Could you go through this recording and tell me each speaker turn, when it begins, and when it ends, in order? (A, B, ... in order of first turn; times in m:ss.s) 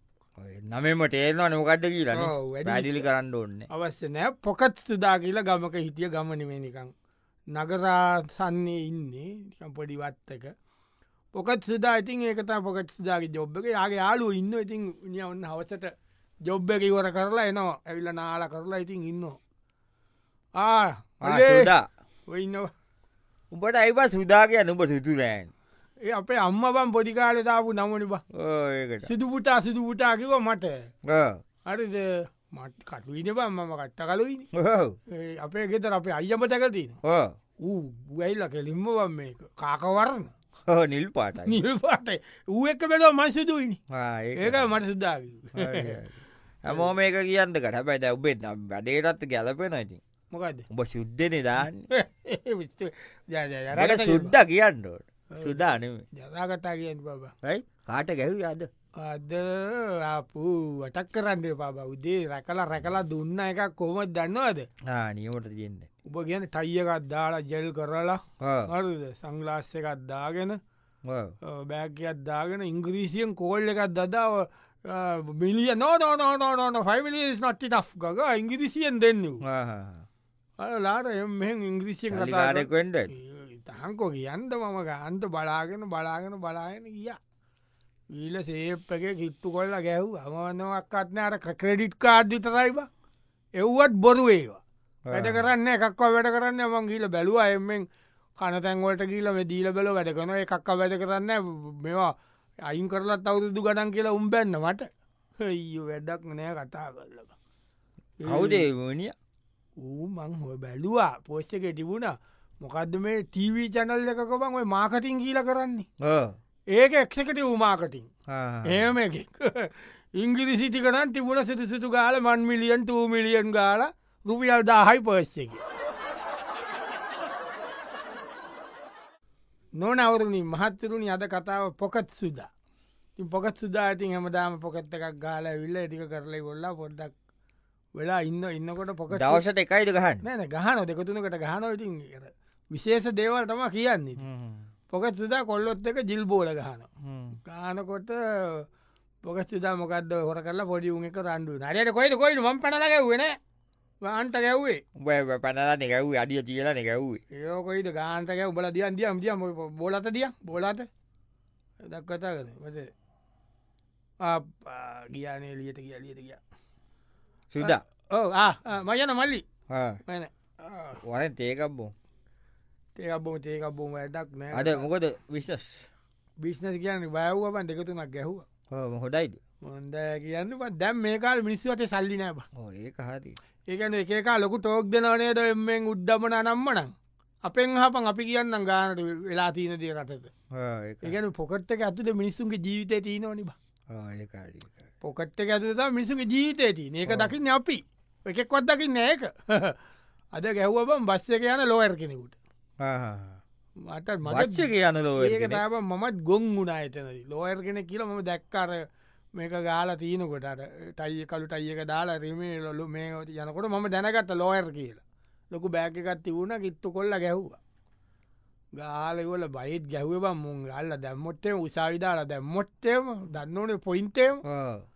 0:00.4-0:03.7 A
0:02.1-0:03.0 B
0:03.7-0:06.9 B
0:07.5-0:10.5 B
0:11.3-0:15.9 B
0:16.4-0:19.4 B
0:20.6-0:21.7 B
0:21.2-0:21.9 A
0:22.3-0:22.7 B
0:23.5-0:25.5 A
0:26.0-0:28.2 B
0:28.3-0:29.1 A
0:29.0-0:30.9 B
0:31.0-0:31.4 A
0:31.6-0:34.5 B
0:34.5-0:35.0 A
0:35.1-0:37.0 B
0:37.0-0:37.3 A
0:37.6-0:40.3 B
0:40.7-0:41.6 A
0:41.4-0:43.8 B
0:43.9-0:44.7 A
0:44.4-0:46.0 B
0:45.5-0:50.0 A
0:50.3-0:50.6 B
0:50.7-0:51.9 A
0:51.9-0:54.3 B
0:53.7-0:56.0 A
0:56.1-0:57.3 B
0:57.4-0:58.7 A
0:59.0-1:04.7 B
1:04.8-1:05.9 A
1:06.0-1:10.6 B
1:08.4-1:08.7 A
1:11.0-1:11.3 A
1:11.4-1:19.4 B
1:19.4-1:20.0 A
1:20.6-1:27.2 B
1:22.1-1:23.1 A
1:28.1-1:32.9 B
1:33.6-1:34.6 B
1:35.0-1:35.4 A
1:35.1-1:37.8 B
1:38.4-1:42.1 B
1:42.6-1:44.9 B
1:45.4-1:47.3 B
1:48.2-1:48.6 B
1:48.2-1:49.1 A
1:49.8-1:55.9 B
1:56.0-1:56.3 A
1:56.7-1:58.1 B
1:58.3-1:58.9 A
1:58.6-2:05.6 B
2:09.8-2:12.5 B
2:13.2-2:17.1 B
2:18.0-2:19.4 B
2:19.1-2:20.2 A
2:20.2-2:24.2 B
2:24.2-2:24.7 A
2:24.9-2:26.9 B
2:27.0-2:27.4 A
2:27.4-2:28.7 B
2:29.2-2:33.4 B
2:34.0-2:34.8 B
2:35.0-2:37.2 A
2:37.3-2:40.9 B
2:41.8-2:42.9 B
2:44.2-2:46.4 B
2:47.5-2:47.8 A
2:47.6-2:49.4 B
2:49.7-2:50.0 A
2:50.0-2:51.0 B
2:51.0-2:51.9 A
2:53.0-2:54.8 B
2:54.5-2:55.9 A
2:56.4-2:58.4 B
2:58.7-2:59.4 A
2:59.6-3:02.4 B
3:02.5-3:03.4 A
3:03.7-3:06.9 B
3:07.4-3:10.3 B
3:10.5-3:11.2 A
3:11.0-3:13.6 B
3:13.9-3:14.8 A
3:15.0-3:19.8 B
3:17.1-3:17.3 A
3:20.3-3:22.4 B
3:22.8-3:23.4 A
3:23.8-3:28.8 B
3:24.2-3:25.6 A
3:29.4-3:37.6 B
3:38.8-3:44.4 B
3:44.4-3:44.8 A